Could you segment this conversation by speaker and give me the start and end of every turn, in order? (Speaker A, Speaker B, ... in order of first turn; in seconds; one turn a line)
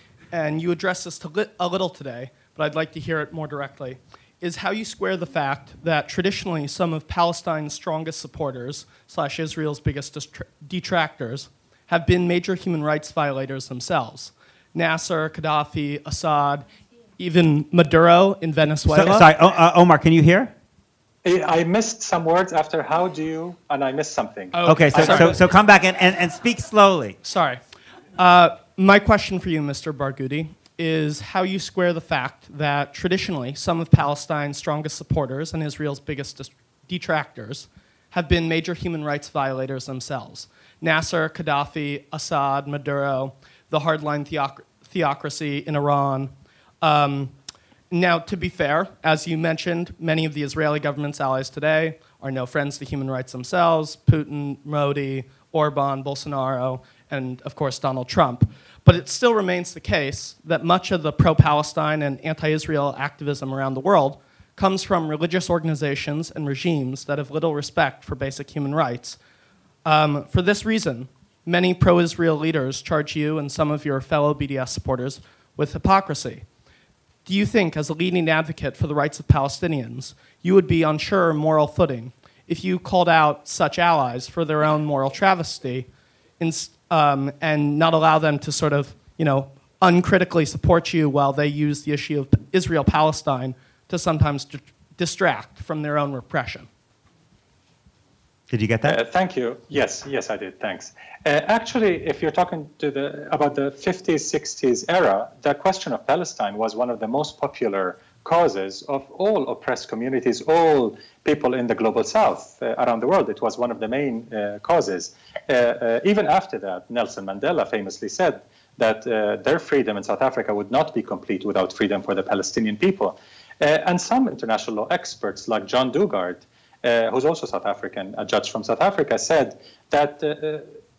Speaker A: 0.3-19.3
Speaker B: 18.9-20.5
Speaker C: 21.2-25.3
Speaker A: 24.5-25.5
Speaker B: 24.6-27.2
Speaker A: 27.2-27.6
Speaker A: 28.1-47.4
Speaker A: 47.9-69.2
Speaker A: 69.8-76.5
Speaker A: 77.2-96.7
Speaker B: 98.5-99.0
Speaker C: 98.8-130.7